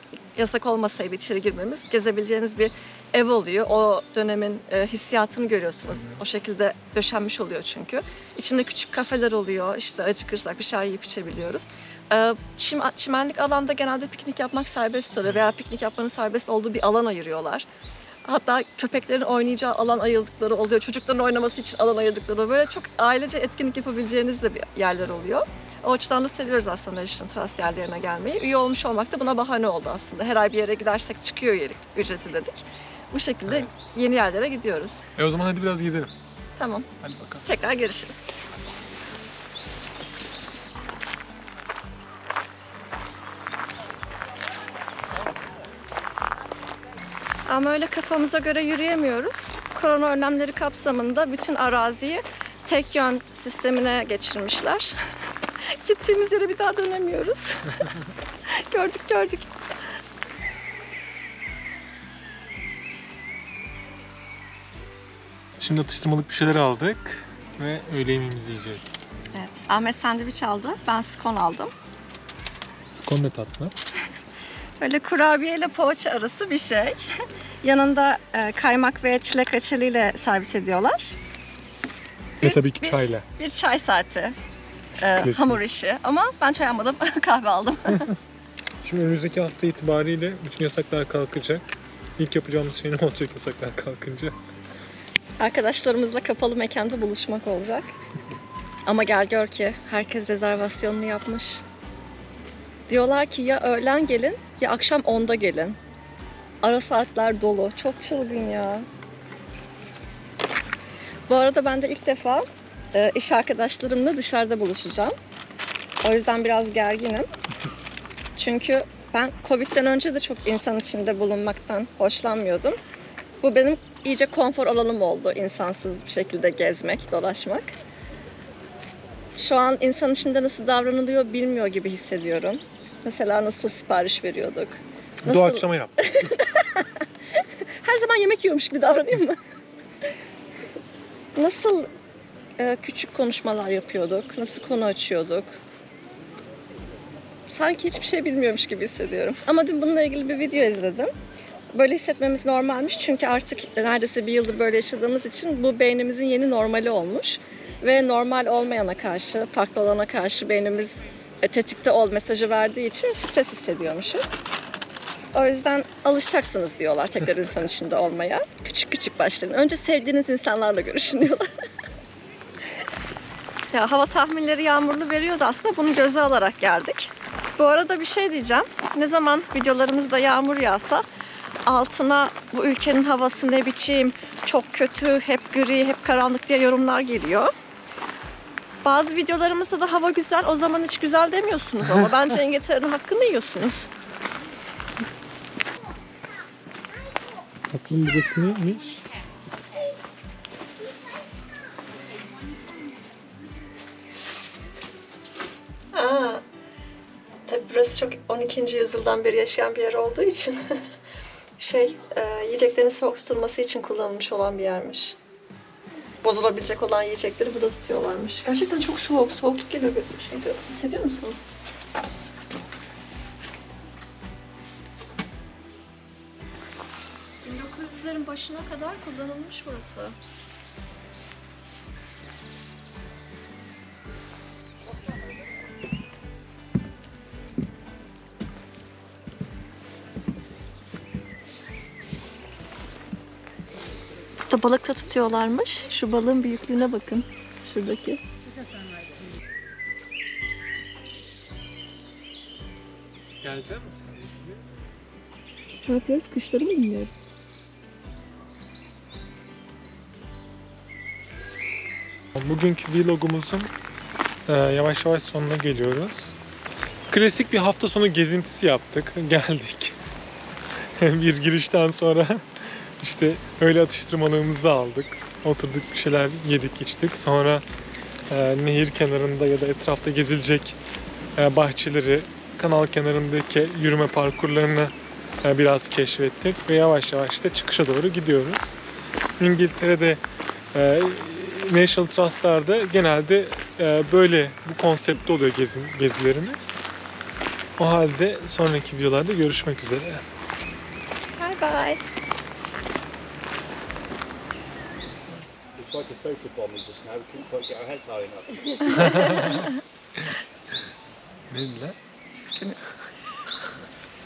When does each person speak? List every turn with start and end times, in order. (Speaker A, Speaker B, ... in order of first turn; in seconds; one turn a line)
Speaker A: 0.3-17.6
Speaker B: 5.9-6.2
Speaker A: 18.2-35.1
Speaker B: 35.2-36.1
Speaker A: 36.6-36.9
Speaker B: 37.0-37.4
Speaker A: 37.4-38.3
Speaker A: 47.5-55.0
Speaker A: 55.6-58.0
Speaker A: 58.5-59.5
Speaker B: 65.6-69.0
Speaker A: 69.3-71.7
Speaker B: 72.8-73.7
Speaker A: 74.8-77.0
Speaker A: 77.6-81.2
Speaker B: 82.4-83.2
Speaker A: 82.4-84.3
Speaker A: 85.0-88.1
Speaker B: 85.2-85.6
Speaker B: 87.9-88.2
Speaker B: 88.8-91.6
Speaker B: 92.2-94.3
Speaker A: 95.4-97.9
Speaker A: 98.9-101.6
Speaker A: 102.9-105.8
Speaker A: 106.6-108.8
Speaker A: 111.3-115.1
Speaker A: 116.0-117.3
Speaker A: 118.3-122.8
Speaker A: 123.4-127.8
Speaker A: 129.3-139.4
Speaker B: 135.2-136.3
Speaker A: 141.3-141.9
Speaker A: 142.6-145.6
Speaker A: 147.5-151.1
Speaker A: 151.7-164.4
Speaker A: 165.3-171.5
Speaker A: 173.7-181.0
Speaker A: 181.6-187.5
Speaker A: 188.8-193.9
Speaker B: 197.7-199.0
Speaker A: 205.9-206.4
Speaker A: 207.5-210.8
Speaker A: 211.6-215.2
Speaker A: 216.2-221.4
Speaker A: 227.4-230.2
Speaker A: 244.5-248.2
Speaker B: 253.4-254.7
Speaker A: 255.9-257.3
Speaker B: 262.3-263.7
Speaker B: 264.5-266.4
Speaker B: 267.1-270.0
Speaker B: 270.8-277.6
Speaker B: 278.3-280.8
Speaker B: 281.4-284.9
Speaker B: 285.4-288.8
Speaker B: 289.4-290.2
Speaker B: 290.7-296.8
Speaker B: 297.8-300.2
Speaker A: 301.4-302.0
Speaker B: 305.1-305.4
Speaker C: 305.8-309.0
Speaker B: 308.9-309.6
Speaker A: 309.0-309.7
Speaker B: 311.5-312.0
Speaker A: 312.4-312.8